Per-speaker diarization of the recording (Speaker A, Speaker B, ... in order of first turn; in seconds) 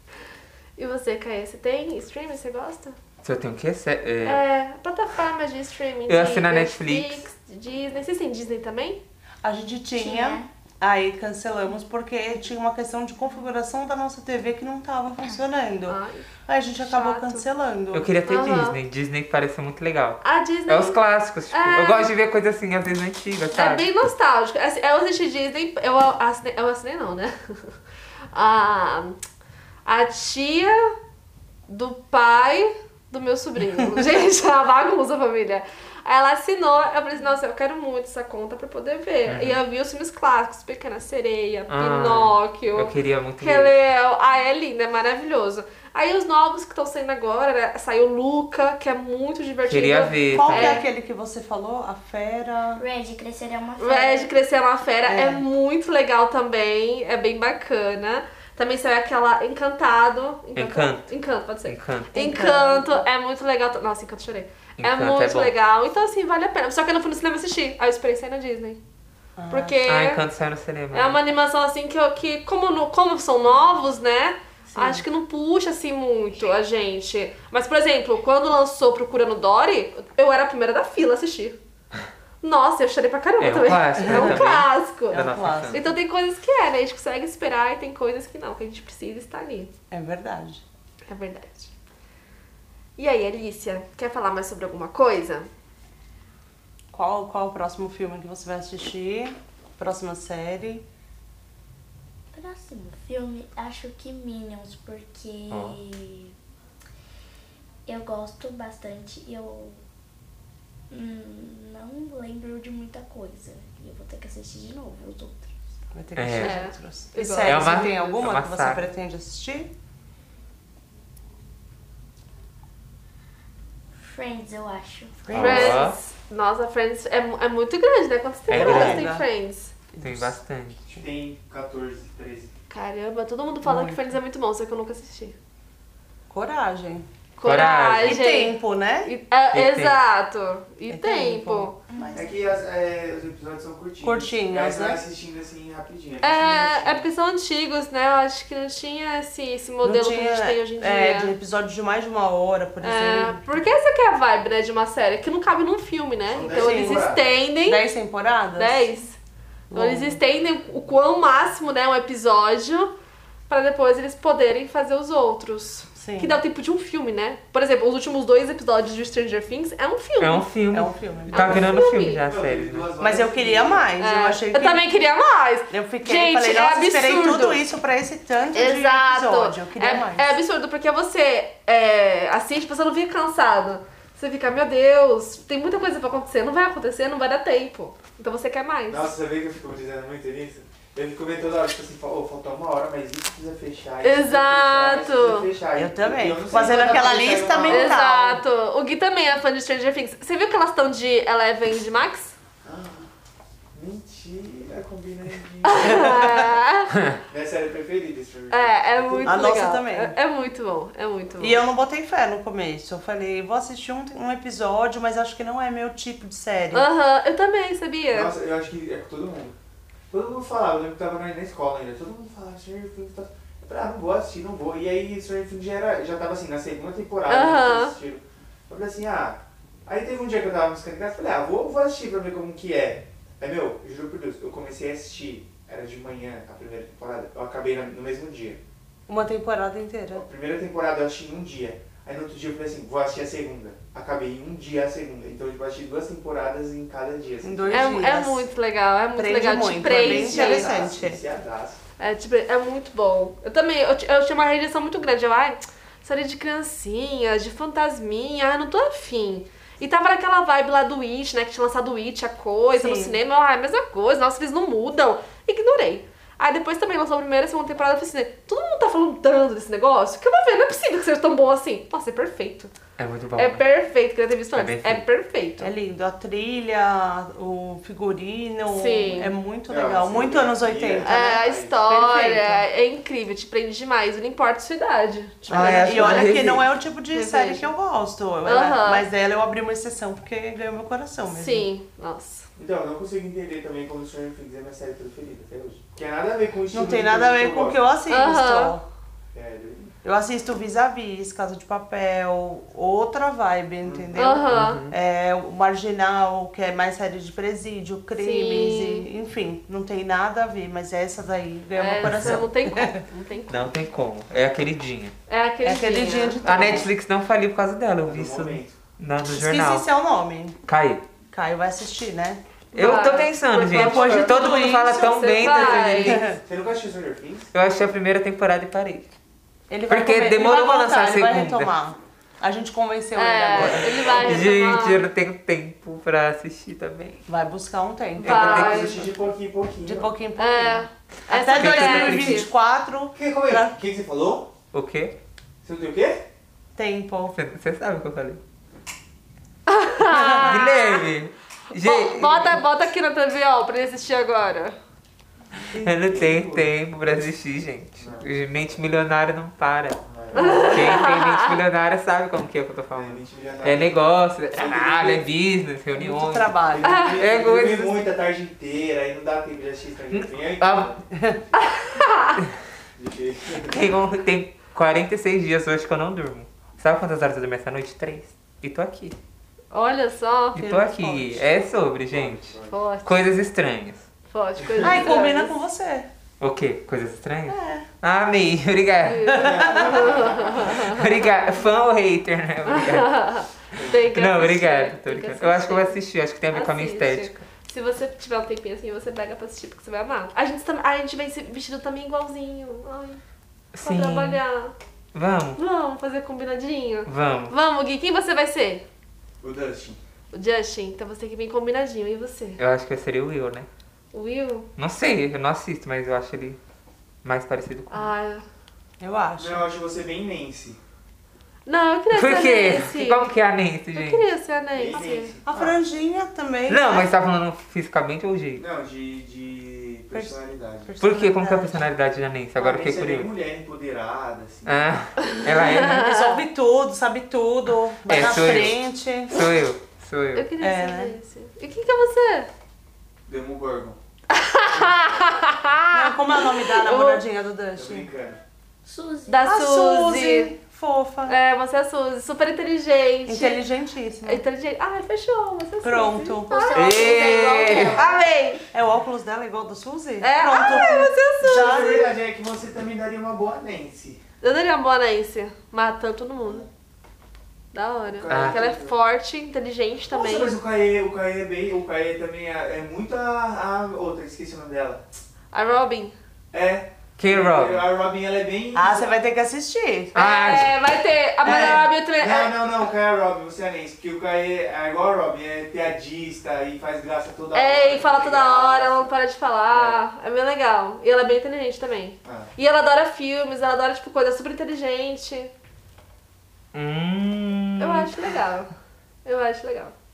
Speaker A: 0.8-3.0, 4.2-9.0, 15.9-16.3, 16.8-17.4, 18.3-18.8, 20.2-22.1, 23.5-27.8, 28.3-29.2, 29.9-30.8, 31.7-50.8, 53.8-68.8, 69.5-70.2, 70.9-81.6, 82.4-89.7, 91.1-91.7, 93.0-95.5, 116.4-118.0, 125.3-129.7, 132.7-135.4, 137.4-141.8, 146.2-151.3, 152.8-157.9, 158.6-159.2, 159.7-162.9, 163.5-170.5, 171.3-172.2, 174.0-177.6, 178.5-189.1, 194.0-195.5, 196.5-196.9, 197.7-202.3, 205.6-207.0, 208.5-211.6, 216.7-218.3, 227.3-228.0, 247.7-250.8, 252.0-272.7, 273.4-275.7, 278.7-279.3, 281.0-286.4, 287.1-287.7, 288.4-289.1, 291.3-292.5, 298.1-298.8, 304.1-304.9, 308.2-309.1, 311.8-313.6, 315.3-316.4, 322.8-326.2, 333.1-335.1, 338.2-339.0, 340.4-342.5, 349.7-351.0, 351.8-354.8, 360.3-361.5, 366.9-367.2, 371.6-372.4, 379.7-380.6, 382.7-383.2, 384.3-385.5, 389.0-391.1, 392.6-403.2, 403.8-404.8, 405.6-408.8, 410.3-412.6, 414.1-414.7, 417.9-418.4, 421.6-423.3, 423.9-425.4, 435.3-436.4, 440.4-442.5, 444.3-446.1, 446.7-447.2, 449.3-450.5, 451.3-453.6, 454.2-458.6, 460.2-461.9, 464.4-466.6, 467.7-470.5, 475.5-476.1, 480.1-482.6, 487.5-495.5, 497.8-498.7, 499.2-499.9
Speaker B: 3.2-4.4, 6.1-7.2, 17.9-23.9, 39.3-39.6, 41.7-43.7, 49.6-50.8, 60.5-61.1, 61.6-62.2, 64.8-65.5, 69.9-71.2, 83.4-85.8, 105.5-105.8, 116.2-116.6, 117.4-118.8, 125.3-126.0, 128.5-129.1, 130.0-130.8, 137.4-138.2, 139.5-140.0, 170.2-172.9, 273.0-273.6, 274.5-275.1, 285.5-286.6, 304.5-304.9, 312.0-312.5, 313.5-315.1, 316.4-319.9, 320.6-321.0, 322.7-326.3, 327.5-329.1, 329.9-331.8, 333.6-337.2, 338.2-338.9, 341.5-342.5, 344.7-345.1, 347.3-348.4, 350.4-352.6, 355.7-366.6, 367.1-368.0, 370.1-370.9, 373.6-379.1, 380.5-384.1, 386.4-389.5, 390.6-393.2, 393.9-397.4, 403.7-404.4, 405.1-405.6, 407.1-407.5, 412.6-413.7, 414.8-416.6, 417.2-418.1, 422.1-424.3, 426.7-428.6, 431.0-433.3, 434.6-436.1, 438.1-440.5, 456.7-458.1, 468.3-468.6, 477.2-477.9, 480.1-480.8, 496.7-498.1
Speaker C: 9.4-18.1, 50.3-52.8, 55.0-55.5, 62.1-63.0, 69.4-69.8, 74.7-75.1, 84.0-84.4, 85.1-85.9, 89.9-90.6, 96.9-100.8, 115.9-119.7, 125.3-125.8, 128.5-129.3, 129.9-130.4, 133.6-134.2, 136.3-137.1, 138.0-139.1, 140.9-142.3, 144.0-145.0, 149.8-153.4, 156.5-157.1, 157.6-158.9, 159.7-160.2, 166.0-166.4, 170.7-171.7, 173.0-175.1, 175.7-180.4, 195.8-198.4, 209.2-210.2, 211.4-216.9, 239.1-240.2, 247.4-248.5, 249.1-251.2, 262.7-263.2, 275.6-282.6, 285.5-291.7, 296.7-298.8, 300.0-313.0, 315.6-316.9, 319.3-320.6, 321.3-326.4, 329.7-334.6, 337.3-338.9, 339.8-343.8, 346.8-347.4, 350.1-350.7, 365.9-367.0, 371.1-371.4, 380.6-381.5, 384.8-386.1, 387.5-387.9, 389.5-389.9, 419.0-419.6, 425.5-427.1, 430.1-431.9, 435.6-439.4, 440.6-441.1, 445.9-448.1, 449.4-451.4, 453.2-454.4, 455.8-456.6, 458.7-462.1, 478.7-480.1
Speaker D: 9.9-10.5, 52.8-54.3, 102.3-106.3, 107.9-109.8, 110.9-115.5, 124.0-125.3, 142.0-142.2, 448.9-449.5, 456.5-458.2
Speaker E: 130.9-132.5, 142.1-147.1, 156.3-157.3, 172.3-173.9, 188.9-198.0, 202.6-203.1, 203.8-206.3, 207.3-209.5, 218.1-219.5, 220.1-238.6, 240.1-247.9, 249.8-251.8, 279.7-281.8, 292.6-297.8, 299.3-299.9, 303.8-304.2, 318.0-318.8, 326.1-327.5, 333.5-334.1, 338.2-340.1, 343.1-344.5, 345.6-346.2, 355.7-357.3, 358.0-358.3, 360.0-361.0, 362.9-365.3, 366.7-371.0, 373.0-373.8, 382.0-382.7, 389.4-390.7, 393.7-394.0, 409.4-410.0, 419.4-420.8, 424.8-425.8, 428.6-430.9, 432.6-434.8, 438.4-438.7, 443.3-444.0, 447.8-448.4, 461.4-464.2, 468.1-468.9, 470.1-475.2, 476.5-479.1, 481.4-489.1, 489.7-490.0, 492.2-492.5